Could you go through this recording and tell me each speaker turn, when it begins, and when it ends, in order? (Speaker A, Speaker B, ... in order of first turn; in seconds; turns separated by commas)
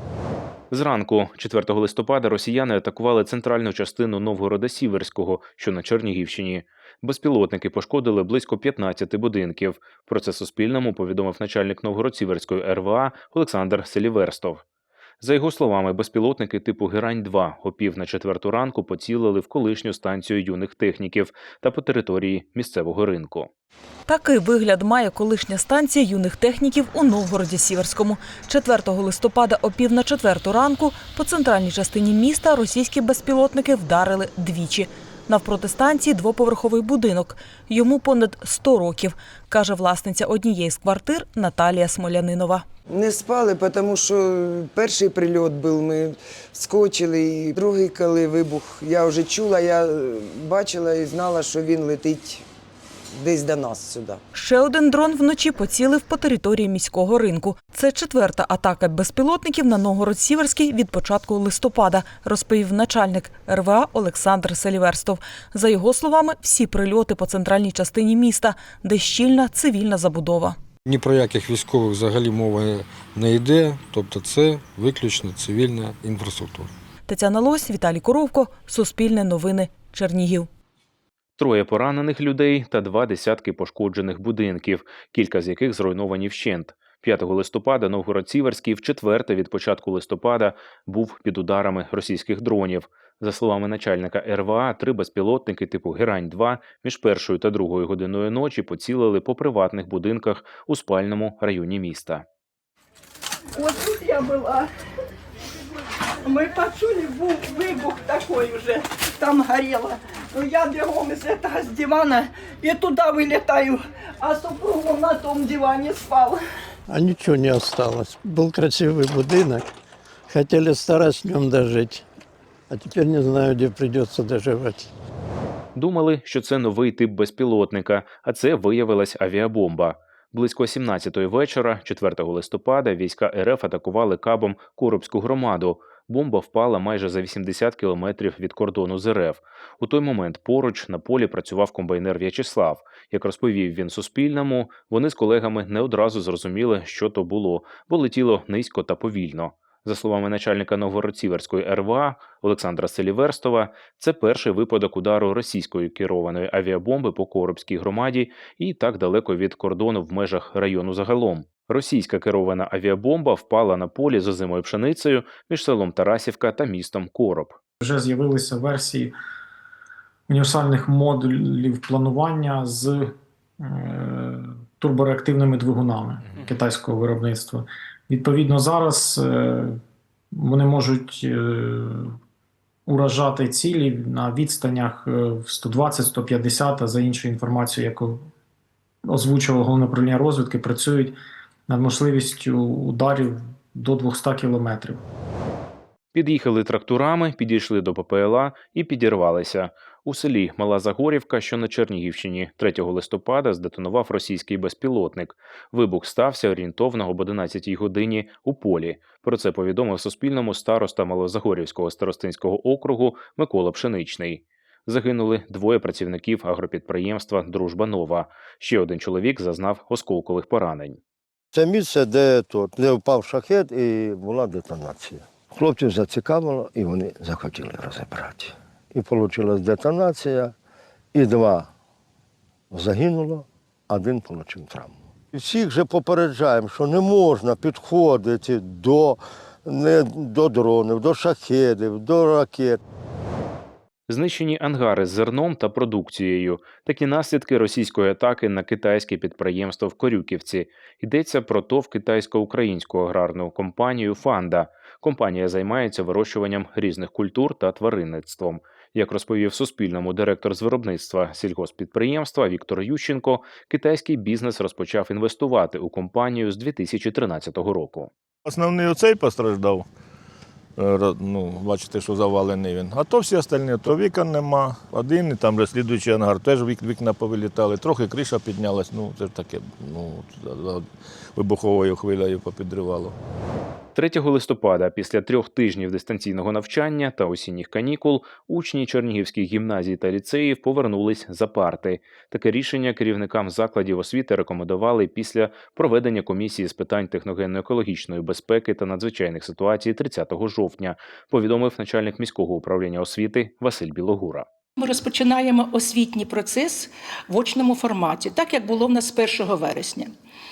Speaker A: 0.7-14.6, Speaker A: 15.2-23.5, Speaker B: 24.1-42.6, Speaker C: 42.9-52.4, Speaker C: 53.1-54.2, Speaker B: 54.3-70.6, Speaker D: 70.8-76.7, Speaker B: 77.1-80.5, Speaker A: 81.4-102.2, Speaker E: 103.6-104.7, Speaker E: 106.2-116.4, Speaker F: 116.9-119.7, Speaker F: 120.3-122.0, Speaker F: 122.7-124.8, Speaker A: 125.8-167.6, Speaker G: 167.8-169.1, Speaker G: 170.3-173.1, Speaker G: 173.6-179.8, Speaker G: 180.3-182.1, Speaker G: 182.9-188.2, Speaker G: 189.1-191.2, Speaker G: 191.7-195.0, Speaker A: 196.1-221.0, Speaker H: 221.5-230.5, Speaker H: 231.1-231.7, Speaker H: 232.7-242.8, Speaker A: 244.1-268.1, Speaker I: 268.4-269.9, Speaker I: 270.8-280.8, Speaker I: 281.4-283.2, Speaker A: 283.9-304.4, Speaker J: 304.8-310.1